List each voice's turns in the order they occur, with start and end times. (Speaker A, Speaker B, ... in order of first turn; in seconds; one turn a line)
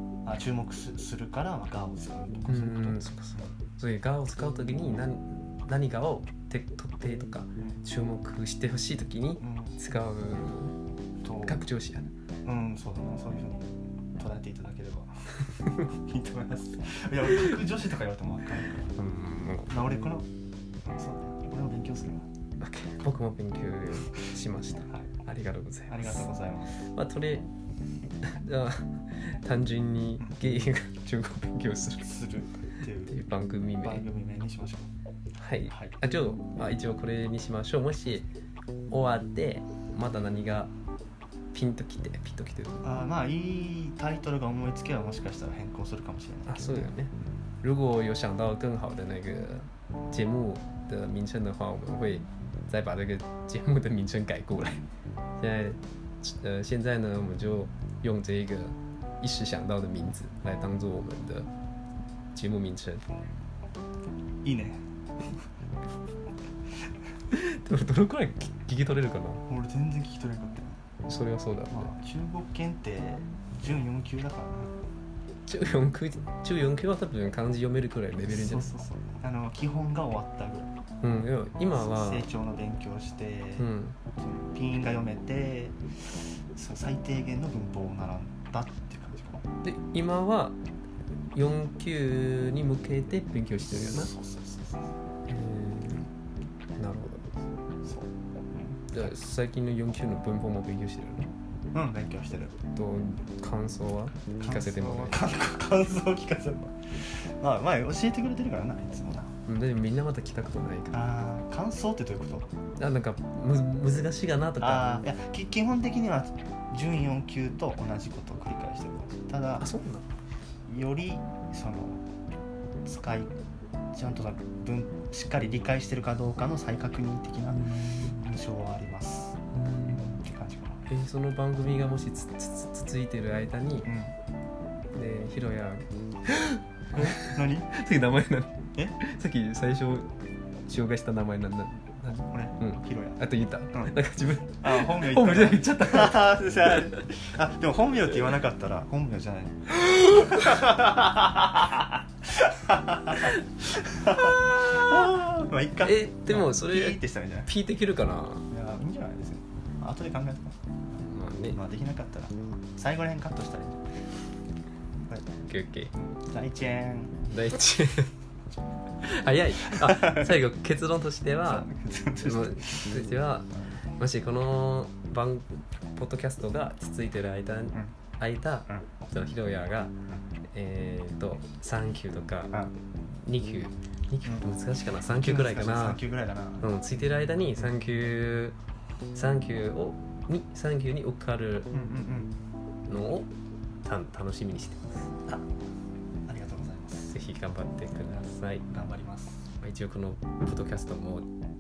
Speaker A: 0.2-3.5
Speaker B: 2.5-10.8
Speaker A: 9.4-9.8
Speaker A: 11.2-11.6
Speaker B: 11.4-12.1
Speaker A: 12.4-18.9
Speaker B: 18.9-19.9
Speaker A: 19.7-20.3
Speaker A: 20.9-22.3
Speaker B: 22.6-27.5
Speaker A: 25.9-26.8
Speaker B: 28.2-32.2
Speaker A: 32.0-33.2
Speaker B: 33.1-34.1
Speaker A: 33.8-34.9
Speaker B: 35.4-38.3
Speaker A: 35.7-36.0
Speaker B: 38.9-40.7
Speaker B: 41.5-42.9
Speaker A: 42.8-46.9
Speaker B: 46.5-54.8
Speaker B: 55.4-61.5
Speaker B: 62.3-63.0
Speaker A: 64.4-65.4
Speaker B: 67.3-69.4
Speaker A: 69.5-70.8
Speaker B: 71.1-71.9
Speaker A: 71.7-74.7
Speaker B: 75.5-78.8
Speaker A: 78.2-80.7
Speaker B: 81.0-82.3
Speaker A: 81.7-89.5
Speaker B: 83.6-84.0
Speaker B: 89.6-90.6
Speaker B: 91.3-94.1
Speaker A: 93.7-94.9
Speaker B: 95.3-96.1
Speaker B: 96.8-97.3
Speaker A: 97.8-99.1
Speaker B: 98.9-101.3
Speaker A: 101.7-102.6
Speaker B: 102.7-105.2
Speaker A: 104.4-109.3
Speaker B: 109.5-111.1
Speaker A: 110.9-112.5
Speaker B: 112.8-115.0
Speaker A: 114.6-119.7
Speaker B: 119.6-120.1
Speaker A: 120.7-122.0
Speaker A: 122.8-123.3
Speaker A: 123.9-129.4
Speaker B: 127.5-128.2
Speaker B: 129.5-130.1
Speaker A: 129.9-130.8
Speaker B: 130.9-133.9
Speaker A: 133.8-134.2
Speaker B: 134.9-140.1
Speaker A: 136.9-137.7
Speaker B: 140.7-147.1
Speaker A: 142.3-143.2
Speaker A: 144.6-157.5
Speaker B: 153.1-153.4
Speaker B: 155.8-158.5
Speaker A: 158.5-160.6
Speaker B: 161.0-161.6
Speaker A: 161.5-163.9
Speaker B: 165.4-165.9
Speaker A: 166.0-167.3
Speaker B: 167.3-168.1
Speaker B: 169.0-171.7
Speaker A: 169.7-170.3
Speaker A: 171.4-173.0
Speaker B: 172.2-179.9
Speaker B: 180.5-186.0
Speaker A: 185.0-186.7
Speaker B: 186.6-188.6
Speaker B: 189.1-191.8
Speaker A: 191.7-192.3
Speaker B: 192.9-193.3
Speaker B: 193.8-195.0
Speaker A: 196.3-197.1
Speaker B: 197.1-198.7
Speaker A: 198.7-199.5
Speaker B: 199.6-201.3